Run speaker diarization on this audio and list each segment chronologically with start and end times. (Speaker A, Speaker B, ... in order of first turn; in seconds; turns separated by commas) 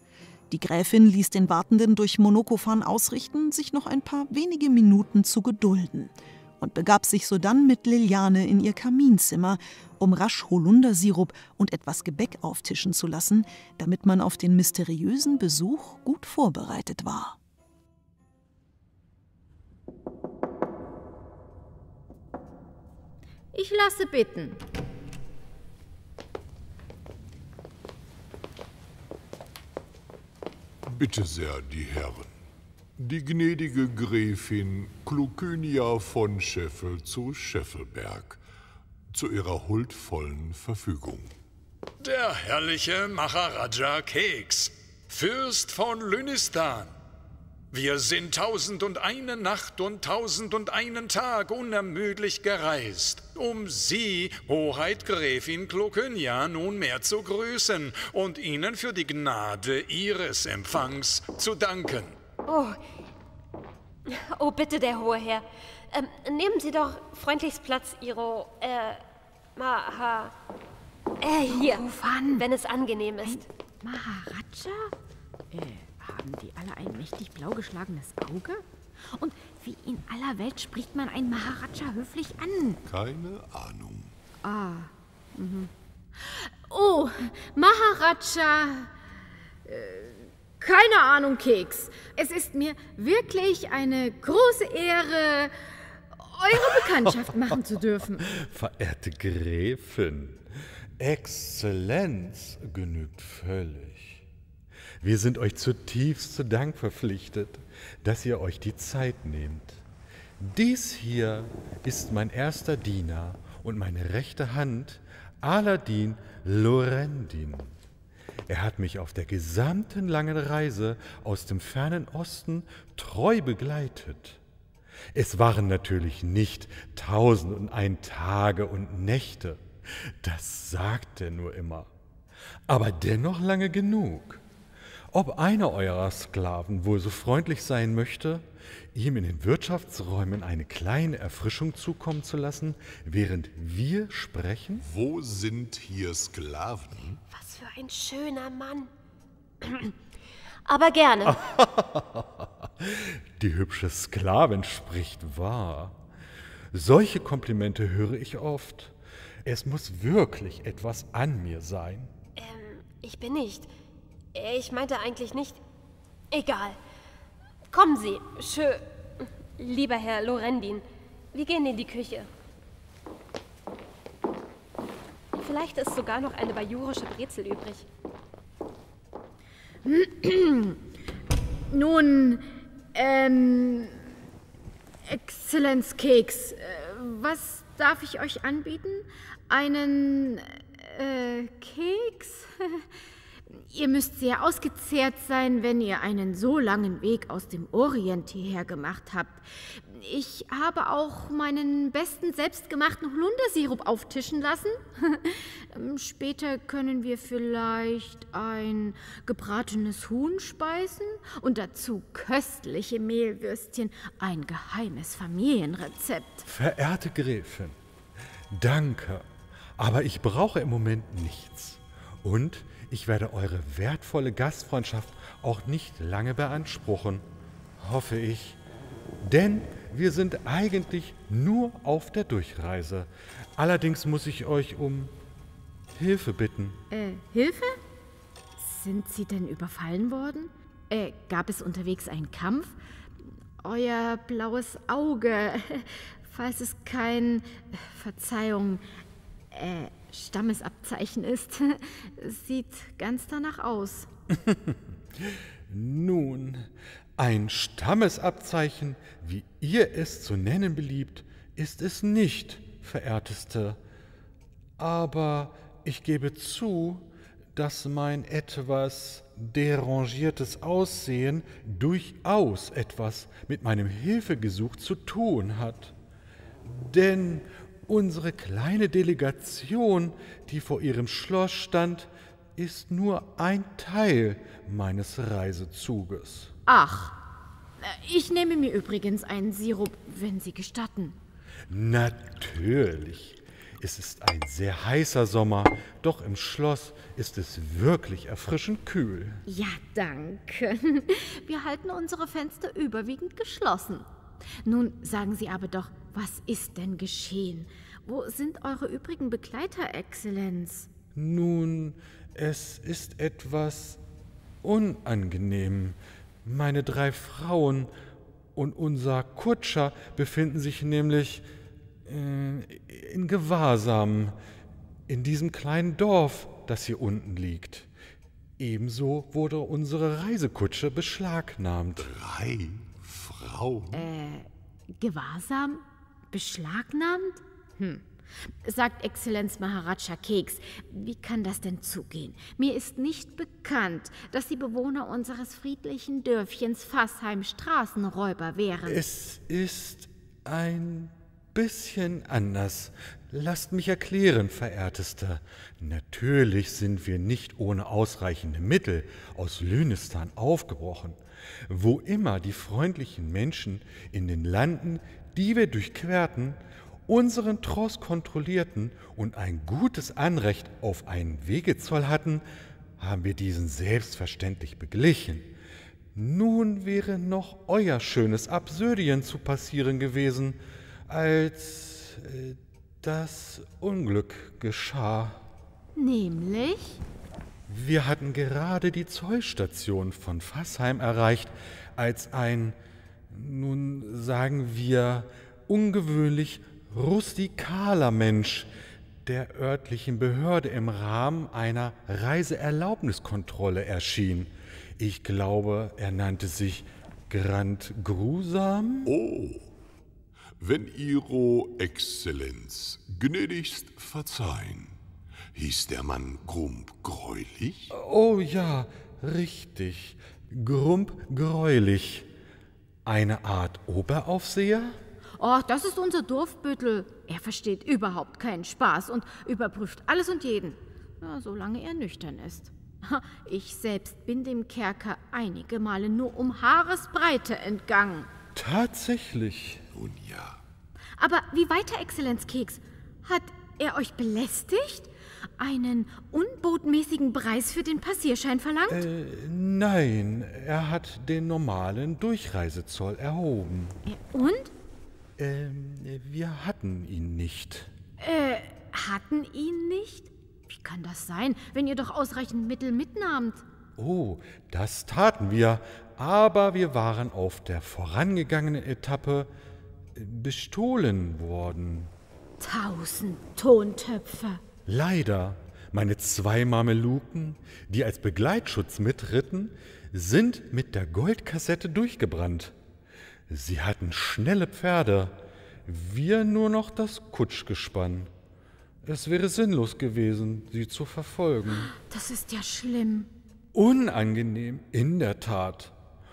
Speaker A: 0.5-17.4, Speaker B: 23.5-24.6, Speaker C: 30.9-32.3, Speaker C: 33.0-38.4, Speaker C: 39.1-41.3, Speaker D: 42.0-46.9, Speaker D: 47.7-62.1, Speaker E: 62.5-62.8, Speaker E: 64.1-69.0, Speaker E: 69.5-70.3, Speaker E: 71.2-73.4, Speaker B: 71.5-72.5, Speaker B: 73.2-74.9, Speaker B: 75.5-82.8, Speaker C: 82.8-84.1, Speaker B: 84.4-88.9, Speaker B: 89.7-95.5, Speaker B: 96.1-98.3, Speaker F: 96.5-97.2, Speaker F: 98.3-100.4, Speaker F: 101.0-104.2, Speaker F: 105.0-109.8, Speaker F: 110.4-117.7, Speaker F: 118.5-124.4, Speaker F: 125.1-131.9, Speaker F: 132.7-134.4, Speaker F: 135.1-144.8, Speaker C: 144.8-147.2, Speaker E: 147.3-148.9, Speaker E: 149.6-149.9, Speaker E: 150.7-151.4, Speaker F: 151.2-156.0, Speaker F: 156.7-162.1, Speaker E: 162.3-163.7, Speaker E: 164.3-165.6, Speaker E: 166.3-166.8, Speaker E: 167.7-172.3, Speaker E: 175.3-177.9, Speaker B: 179.8-180.8, Speaker B: 181.7-183.9, Speaker B: 185.1-192.8, Speaker B: 193.5-216.5, Speaker F: 216.5-217.8, Speaker F: 218.5-227.2, Speaker F: 227.8-228.6, Speaker F: 229.2-235.1, Speaker F: 235.9-236.8, Speaker B: 236.9-237.8, Speaker B: 238.6-242.8, Speaker B: 243.6-248.8, Speaker B: 249.5-254.1, Speaker F: 254.3-263.8, Speaker F: 264.8-275.9, Speaker F: 276.6-286.5, Speaker B: 286.7-287.2, Speaker B: 287.8-291.1, Speaker F: 291.7-299.4, Speaker B: 299.5-304.1, Speaker B: 304.6-310.9, Speaker F: 311.1-314.0, Speaker F: 314.6-317.9, Speaker F: 318.5-321.4, Speaker F: 322.0-324.4, Speaker F: 325.1-327.9, Speaker F: 328.6-332.1, Speaker C: 332.0-334.1, Speaker B: 333.9-338.1, Speaker B: 338.6-349.0, Speaker F: 348.9-372.4, Speaker F: 373.0-375.5, Speaker F: 376.1-385.4, Speaker B: 385.9-387.0, Speaker F: 387.7-392.8, Speaker F: 393.3-398.7, Speaker F: 399.2-409.1, Speaker C: 409.0-409.7, Speaker C: 410.6-414.9, Speaker C: 415.5-417.9, Speaker F: 417.9-422.3, Speaker F: 423.1-425.0, Speaker B: 425.4-438.3, Speaker F: 438.5-439.8, Speaker C: 439.9-440.6, Speaker B: 441.2-449.0, Speaker F: 448.9-454.0, Speaker B: 454.1-454.7, Speaker F: 455.4-457.9, Speaker B: 458.2-463.6, Speaker F: 464.0-469.5, Speaker F: 470.1-472.1, Speaker B: 472.6-474.6, Speaker F: 474.9-482.7, Speaker F: 483.5-488.3, Speaker F: 489.0-491.9, Speaker B: 491.8-493.3, Speaker F: 493.7-495.9